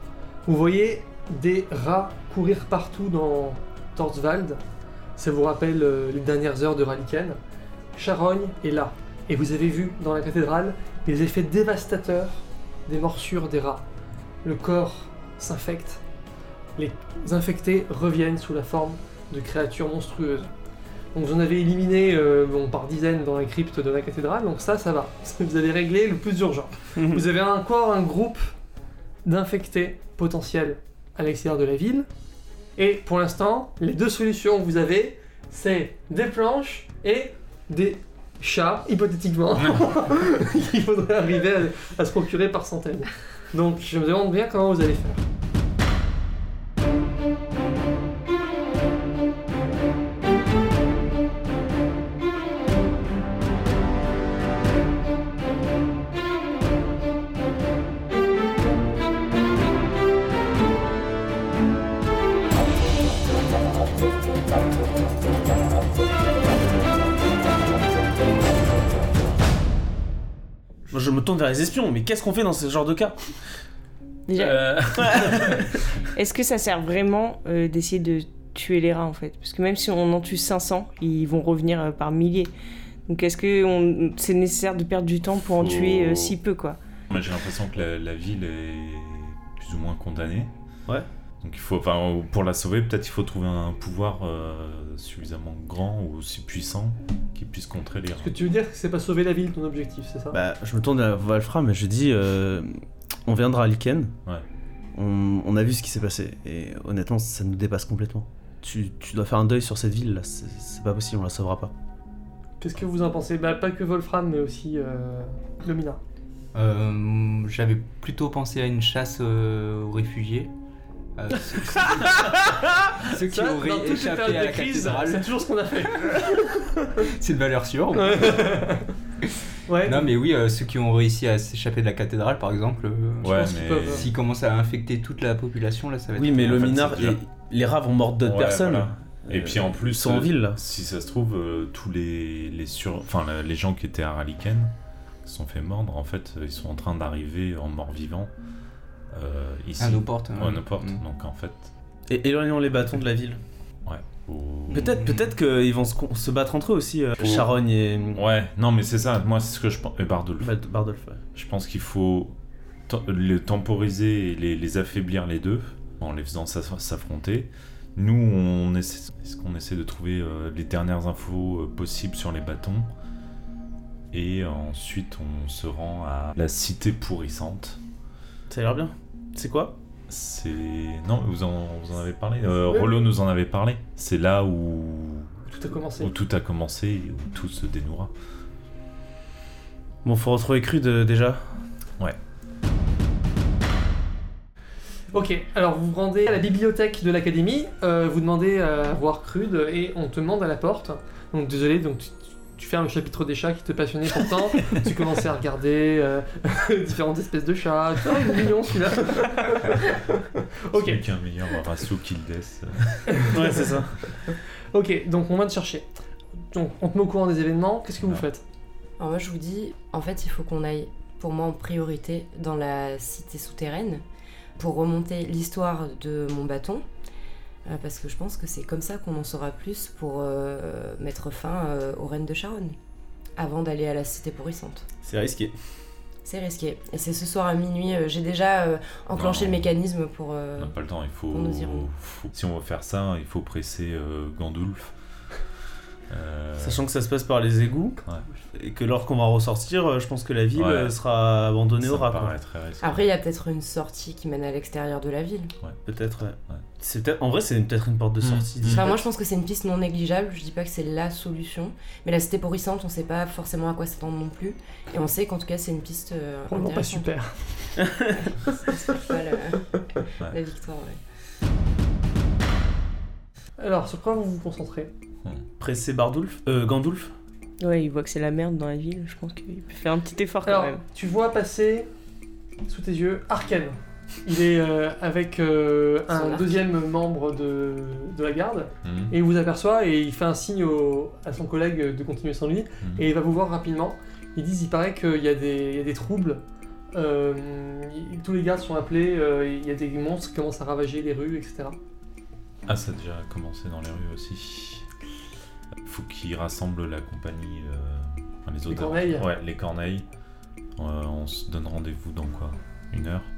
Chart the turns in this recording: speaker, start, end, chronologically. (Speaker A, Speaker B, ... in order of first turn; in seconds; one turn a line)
Speaker A: 0.5-4.6
Speaker A: 5.2-7.4
Speaker A: 8.0-13.8
Speaker A: 14.4-16.0
Speaker A: 16.8-20.5
Speaker A: 21.1-28.5
Speaker B: 26.9-27.2
Speaker A: 29.2-32.1
Speaker A: 32.8-45.2
Speaker B: 70.9-73.2
Speaker C: 74.3-75.4
Speaker B: 74.9-75.6
Speaker C: 76.1-82.5
Speaker C: 83.1-86.8
Speaker D: 85.2-86.4
Speaker D: 87.1-90.5
Speaker D: 91.4-98.3
Speaker A: 98.2-100.4
Speaker B: 100.3-104.1
Speaker B: 104.9-111.7
Speaker A: 112.6-116.0
Speaker E: 116.5-120.5
Speaker E: 121.2-125.2
Speaker A: 123.3-126.6
Speaker E: 127.1-128.5
Speaker A: 127.9-128.8
Speaker A: 129.7-130.1
Speaker E: 129.8-136.6
Speaker D: 133.2-134.1
Speaker A: 133.2-134.1
Speaker B: 136.1-140.6
Speaker D: 136.4-137.2
Speaker D: 138.2-144.7
Speaker D: 145.2-148.3
Speaker D: 149.1-151.7
Speaker E: 149.8-151.0
Speaker B: 152.1-153.4
Speaker D: 153.8-154.9
Speaker E: 154.7-155.2
Speaker B: 154.7-158.2
Speaker D: 157.2-157.5
Speaker D: 158.1-160.5
Speaker B: 160.4-161.2
Speaker D: 161.3-162.3
Speaker D: 162.9-172.9
Speaker D: 174.1-177.8
Speaker B: 178.5-179.7
Speaker D: 180.1-185.3
Speaker A: 182.5-183.1
Speaker A: 185.5-186.1
Speaker D: 186.0-188.1
Speaker B: 190.0-191.4
Speaker A: 195.1-211.0
Speaker D: 210.7-213.2
Speaker A: 213.1-213.7
Speaker B: 213.3-214.0
Speaker A: 214.7-215.9
Speaker A: 216.5-218.4
Speaker D: 218.0-218.2
Speaker F: 219.0-224.0
Speaker F: 224.6-226.8
Speaker F: 227.7-232.8
Speaker F: 233.3-234.8
Speaker B: 235.0-235.5
Speaker F: 236.2-240.8
Speaker D: 239.1-239.7
Speaker D: 240.6-244.9
Speaker F: 241.3-241.9
Speaker D: 246.1-246.8
Speaker B: 246.6-248.0
Speaker B: 248.5-252.3
Speaker D: 250.5-251.0
Speaker D: 251.8-253.1
Speaker F: 252.8-255.5
Speaker B: 255.8-259.0
Speaker D: 258.2-258.8
Speaker F: 258.6-267.1
Speaker A: 266.5-267.7
Speaker B: 267.8-268.1
Speaker F: 268.4-271.0
Speaker A: 273.6-274.9
Speaker B: 275.6-277.1
Speaker C: 277.6-280.8
Speaker A: 280.4-281.9
Speaker A: 282.6-296.4
Speaker F: 286.1-286.6
Speaker D: 288.8-289.1
Speaker D: 292.8-293.1
Speaker A: 296.9-301.8
Speaker D: 302.7-304.9
Speaker D: 305.8-310.1
Speaker A: 308.7-309.3
Speaker D: 310.8-313.3